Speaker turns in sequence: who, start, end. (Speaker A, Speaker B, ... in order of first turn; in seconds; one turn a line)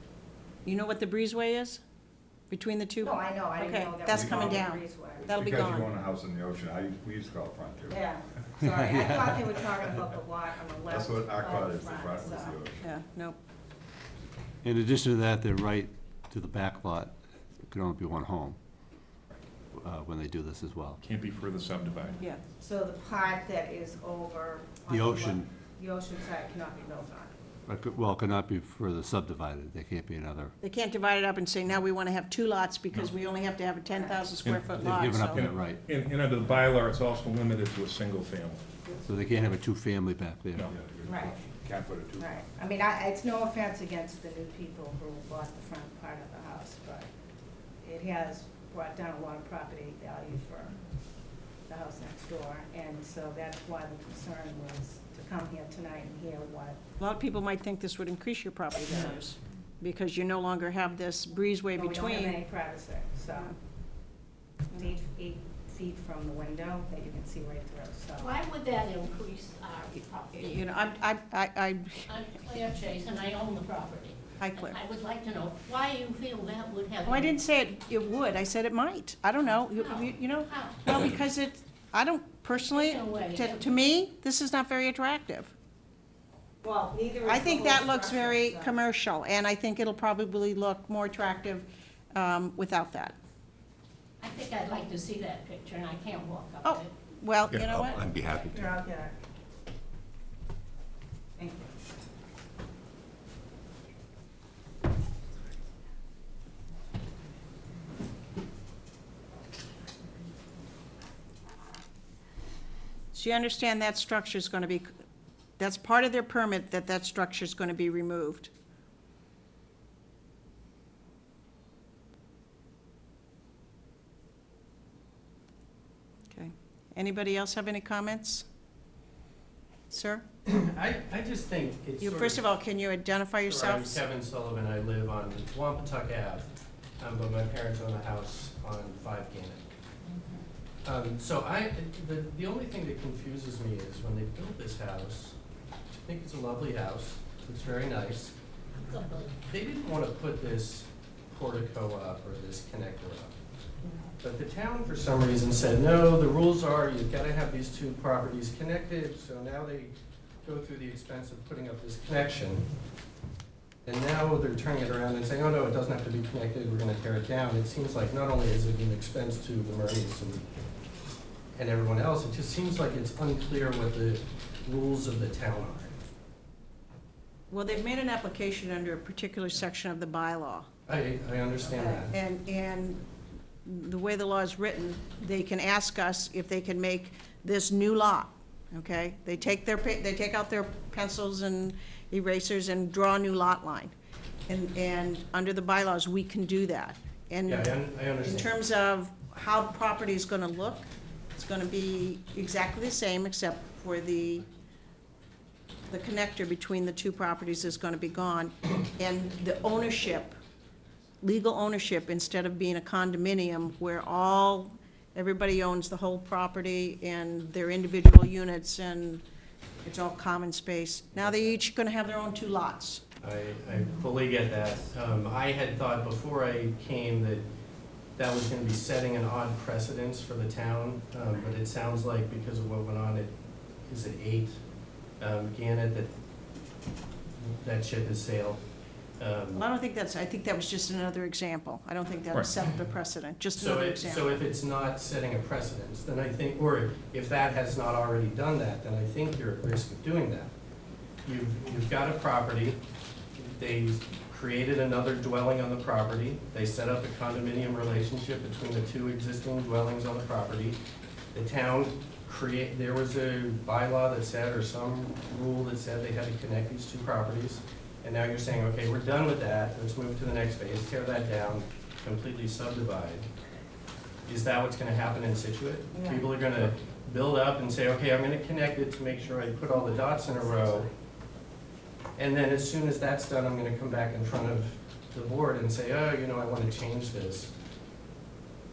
Speaker A: 0.6-1.8
Speaker A: 2.5-5.9
Speaker B: 3.0-5.2
Speaker C: 4.1-4.5
Speaker C: 5.2-8.0
Speaker B: 7.9-12.6
Speaker D: 8.6-9.4
Speaker C: 10.9-12.8
Speaker A: 12.8-13.4
Speaker D: 14.6-17.1
Speaker D: 17.7-18.6
Speaker D: 19.7-21.0
Speaker E: 21.0-22.2
Speaker B: 22.6-27.3
Speaker D: 24.9-25.5
Speaker D: 27.7-30.5
Speaker A: 30.6-35.4
Speaker B: 33.9-34.2
Speaker E: 34.4-38.6
Speaker D: 34.8-35.8
Speaker D: 39.0-40.7
Speaker C: 40.8-42.3
Speaker B: 41.1-41.3
Speaker B: 42.2-47.1
Speaker B: 47.8-50.8
Speaker B: 51.7-56.8
Speaker A: 57.0-62.4
Speaker B: 61.7-63.5
Speaker B: 64.7-68.3
Speaker F: 68.2-70.7
Speaker A: 70.3-72.0
Speaker F: 72.1-77.3
Speaker A: 74.4-74.8
Speaker A: 77.0-85.5
Speaker F: 79.6-81.0
Speaker F: 82.7-83.8
Speaker B: 86.6-88.8
Speaker A: 87.2-93.2
Speaker F: 94.2-96.9
Speaker A: 96.6-98.1
Speaker B: 98.4-99.1
Speaker B: 101.4-101.7
Speaker A: 113.1-114.9
Speaker A: 115.6-118.5
Speaker A: 126.3-128.4
Speaker A: 129.9-130.2
Speaker G: 130.4-132.4
Speaker A: 132.0-134.0
Speaker G: 133.4-139.6
Speaker G: 140.8-145.3
Speaker G: 146.0-148.3
Speaker F: 148.8-149.4
Speaker G: 149.5-153.3
Speaker G: 154.2-159.9
Speaker G: 160.4-162.7
Speaker G: 163.8-170.5
Speaker G: 171.5-175.9
Speaker A: 177.5-180.7
Speaker G: 180.9-182.1
Speaker A: 181.6-183.0
Speaker A: 183.6-193.9
Speaker A: 194.5-204.4
Speaker G: 197.4-198.5
Speaker A: 205.9-210.4
Speaker A: 211.2-219.2
Speaker A: 219.8-223.0
Speaker G: 221.1-221.5
Speaker G: 223.2-227.4
Speaker G: 228.2-234.6
Speaker G: 235.2-236.1
Speaker G: 237.4-238.6
Speaker G: 239.2-239.6
Speaker A: 239.5-244.4
Speaker G: 243.6-250.5
Speaker G: 251.2-252.8
Speaker G: 253.4-260.8
Speaker G: 261.3-273.3
Speaker G: 274.2-280.9
Speaker B: 275.9-276.2
Speaker G: 282.1-287.5